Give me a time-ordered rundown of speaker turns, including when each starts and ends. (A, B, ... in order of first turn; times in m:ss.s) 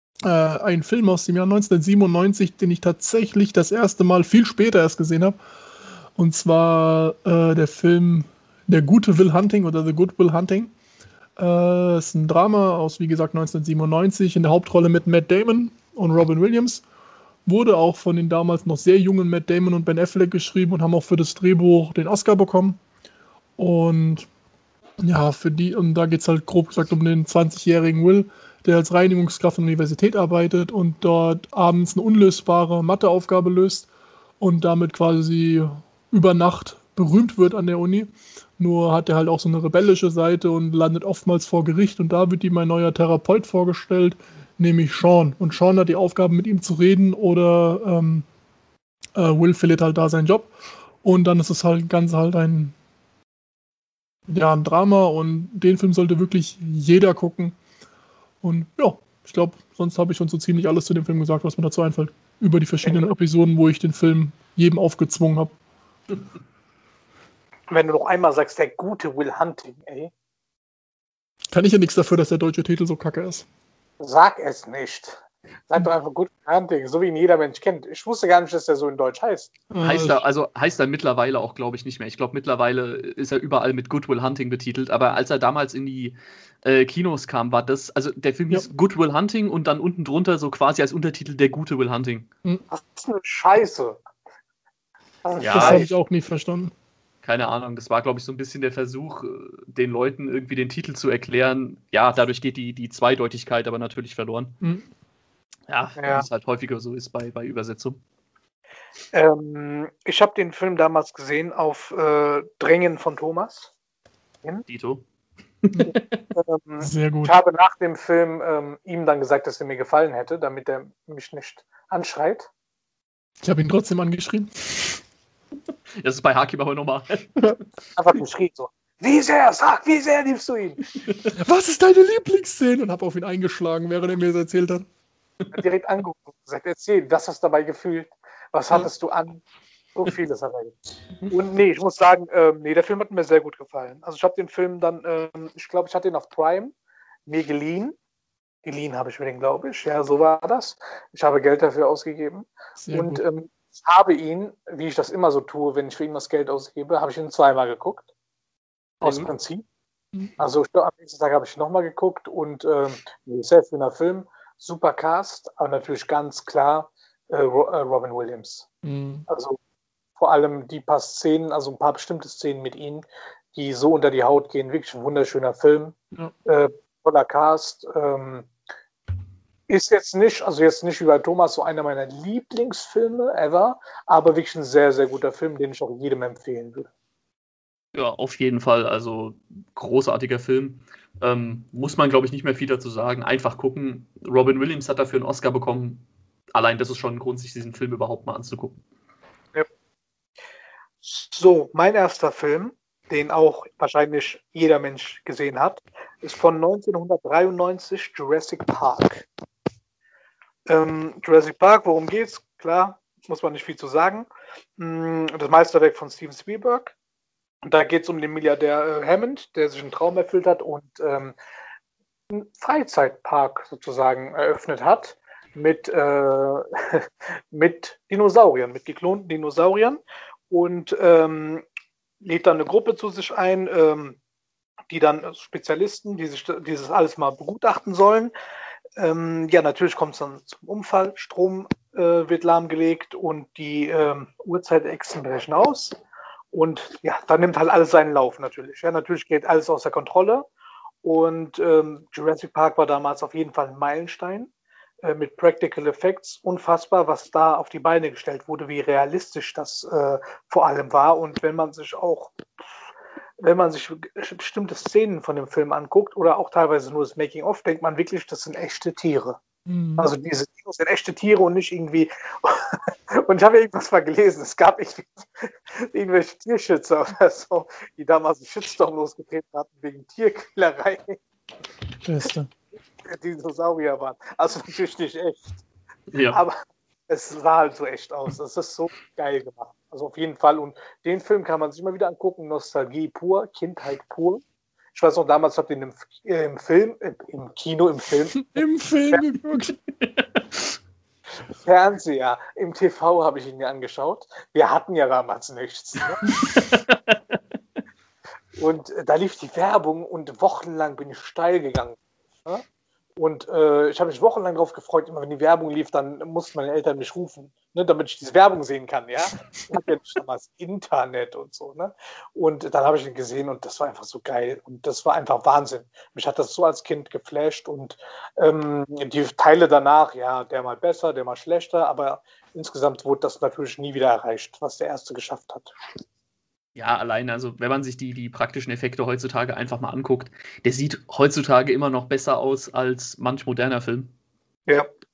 0:00.2-0:05.4 A
0:06.2-0:10.7 A
0:11.4-0:16.8 A
0:17.4-0:22.8 A
0:23.6-0:24.3 A
0:25.0-0:33.9 A
0:34.4-0:48.2 A
0:49.1-0:52.7 A
0:54.3-0:57.6 A
0:58.4-1:05.5 A
1:02.8-1:03.1 B
1:07.7-1:10.1 B
1:11.5-1:13.4 A
1:14.0-1:19.5 B
1:19.7-1:20.2 A
1:19.8-1:32.3 C
1:32.7-1:34.0 B
1:35.2-1:35.9 B
1:35.4-1:35.8 C
1:35.5-1:36.7 A
1:37.2-1:44.5 C
1:44.6-1:44.9 A
1:45.7-1:48.0 C
1:46.0-1:46.2 B
1:49.1-1:53.7 B
1:54.7-1:55.0 C
1:55.6-1:56.2 C
1:55.9-2:02.5 B
1:56.8-1:57.3 A
2:03.4-2:05.0 A
2:06.0-2:07.6 C
2:08.0-2:10.8 B
2:11.4-2:14.9 A
2:15.5-2:19.4 B
2:19.9-2:20.7 B
2:21.3-2:26.7 B
2:27.3-2:28.0 B
2:28.6-2:38.0 B
2:32.8-2:33.2 A
2:39.0-2:39.6 B
2:40.4-2:48.7 B
2:48.8-2:49.2 A
2:49.3-2:49.6 B
2:50.2-2:58.5 B
2:59.7-3:06.9 B
3:07.9-3:18.8 C
3:21.0-3:29.3 B
3:30.7-3:36.9 B
3:37.6-3:41.3 B
3:42.3-3:51.6 B
3:52.2-3:54.2 B
3:54.9-3:58.3 B
3:59.0-4:06.0 B
4:06.5-4:10.5 B
4:11.0-4:14.5 B
4:15.0-4:22.4 B
4:23.4-4:29.4 B
4:29.7-4:30.1 A
4:30.0-4:41.2 B
4:42.0-4:42.5 A
4:43.0-4:45.6 B
4:46.1-4:46.4 C
4:46.3-4:59.2 B
4:58.3-4:59.8 A
5:00.0-5:00.7 C
5:01.6-5:06.2 B
5:06.4-5:07.4 C
5:08.6-5:12.6 B
5:13.2-5:35.7 B
5:36.8-5:44.1 C